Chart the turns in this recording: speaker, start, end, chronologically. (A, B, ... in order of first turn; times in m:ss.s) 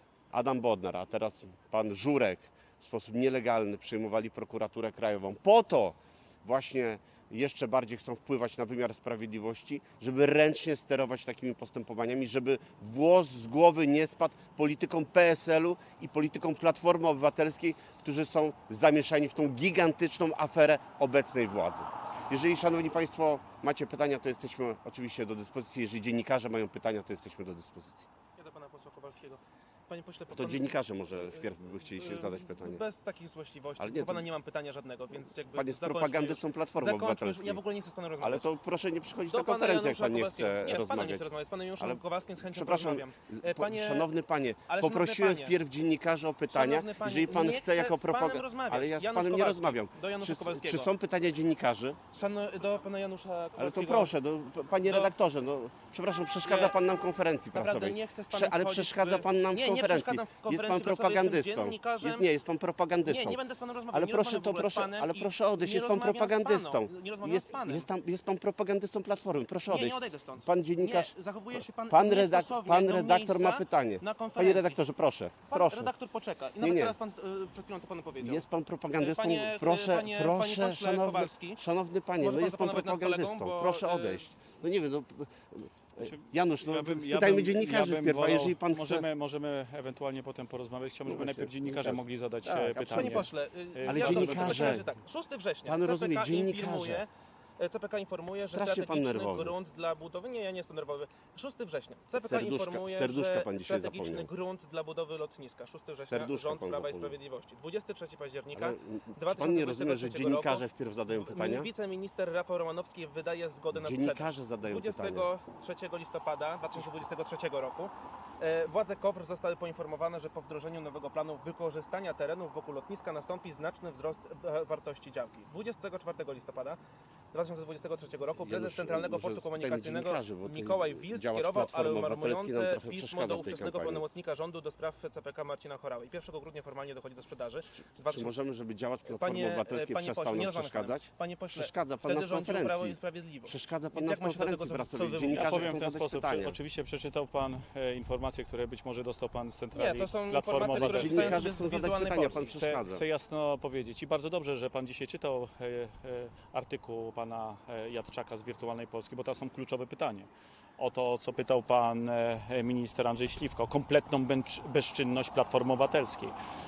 0:00.3-0:28.1 A
0:28.4-0:31.4 B
0:30.3-0:32.8 A
0:32.0-0:38.4 B
0:33.8-0:34.2 A
0:35.5-0:37.6 A
0:38.2-0:41.3 A
0:39.3-0:44.1 B
0:41.8-0:52.0 A
0:44.7-0:45.5 B
0:46.5-0:50.9 B
0:52.1-0:54.1 B
0:53.6-1:03.4 A
0:54.8-0:55.1 B
0:56.4-0:56.7 B
0:57.5-1:02.3 B
1:03.0-1:07.9 B
1:03.9-1:15.9 A
1:09.7-1:14.8 B
1:15.5-1:18.4 B
1:16.6-1:17.0 A
1:18.2-1:29.0 A
1:19.0-1:21.6 B
1:22.2-1:24.3 B
1:26.0-1:34.8 C
1:31.1-1:33.3 A
1:32.9-2:06.8 B
1:33.9-1:34.8 A
1:35.7-1:37.0 A
1:38.4-1:39.5 A
1:42.2-1:44.3 A
1:46.0-1:47.1 A
1:48.5-1:51.7 A
1:53.7-1:55.3 A
2:07.3-2:18.3 B
2:08.4-2:14.0 A
2:18.1-2:26.6 A
2:19.1-2:25.8 B
2:25.3-2:31.5 C
2:29.7-2:32.5 B
2:30.6-2:33.0 A
2:32.4-2:46.3 C